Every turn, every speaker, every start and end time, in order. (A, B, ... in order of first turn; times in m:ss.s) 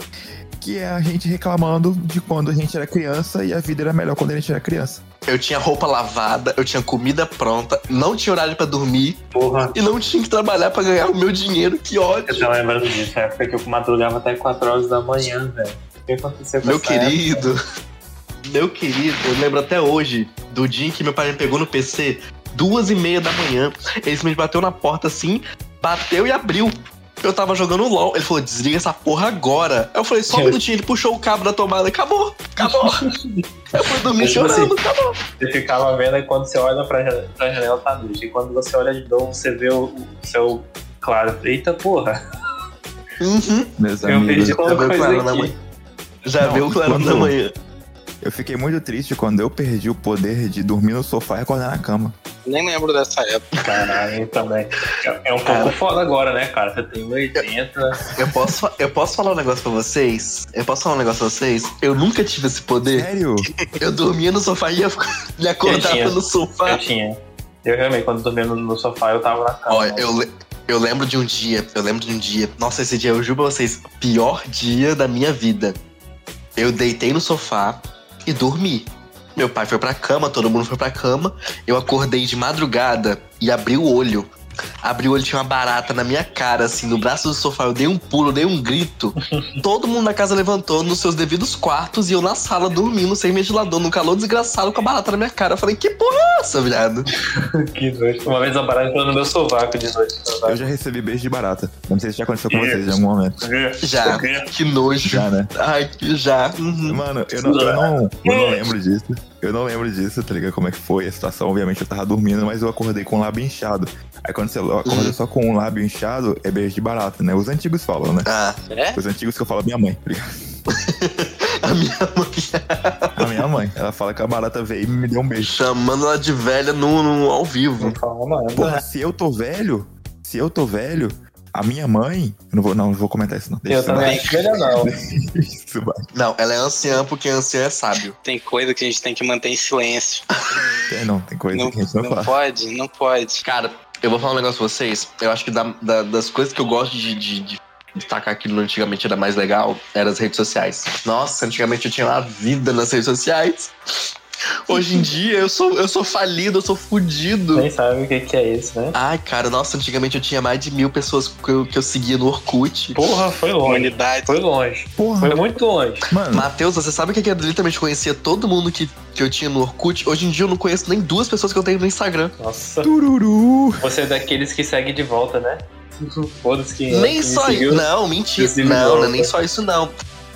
0:00.6-0:05.0 A
0:05.3-0:09.2 B
0:09.3-0:09.8 C
0:09.7-0:12.5 B
0:12.3-0:17.5 C
0:16.6-0:17.6 B
0:18.4-0:33.0 B
0:30.3-0:30.6 C
0:32.6-0:34.7 C
0:33.7-0:35.2 B
0:35.4-0:42.2 C
0:43.2-0:43.7 B
0:43.8-0:44.7 A
0:44.0-0:45.6 C
0:44.6-0:45.6 B
0:46.2-0:47.5 B
0:46.4-0:47.3 A
0:48.2-0:52.2 A
0:52.4-0:53.5 D
0:53.6-0:53.9 B
0:53.6-0:58.0 C
0:55.4-0:55.8 B
0:58.1-1:03.1 B
1:02.9-1:03.5 A
1:03.8-1:06.8 B
1:05.6-1:10.2 C
1:09.7-1:15.8 B
1:16.6-1:24.3 B
1:24.8-1:37.1 B
1:29.3-1:29.6 C
1:37.4-1:40.7 C
1:40.4-1:43.4 A
1:42.5-1:44.5 C
1:43.8-1:47.0 B
1:45.0-1:45.5 A
1:46.9-1:58.3 A
1:47.4-1:48.6 C
1:54.9-1:55.1 B
1:58.2-1:58.6 B
1:58.7-1:59.0 D
1:59.0-2:00.3 A
2:00.7-2:03.2 B
2:03.2-2:05.5 A
2:05.4-2:08.0 B
2:07.8-2:08.8 C
2:08.6-2:16.0 A
2:13.7-2:14.9 C
2:14.0-2:14.4 D
2:16.1-2:18.2 B
2:18.2-2:20.3 D
2:20.9-2:22.3 A
2:21.5-2:23.4 D
2:23.4-2:33.7 B
2:34.7-2:37.7 B
2:34.7-2:35.1 A
2:37.5-2:39.0 C
2:38.9-2:43.0 B
2:42.9-2:46.1 C
2:43.6-2:44.3 D
2:45.0-2:45.4 A
2:46.1-2:46.5 A
2:46.3-2:52.3 B
2:52.4-2:52.9 C
2:52.8-2:53.8 A
2:53.8-2:59.3 C
2:56.9-2:59.9 B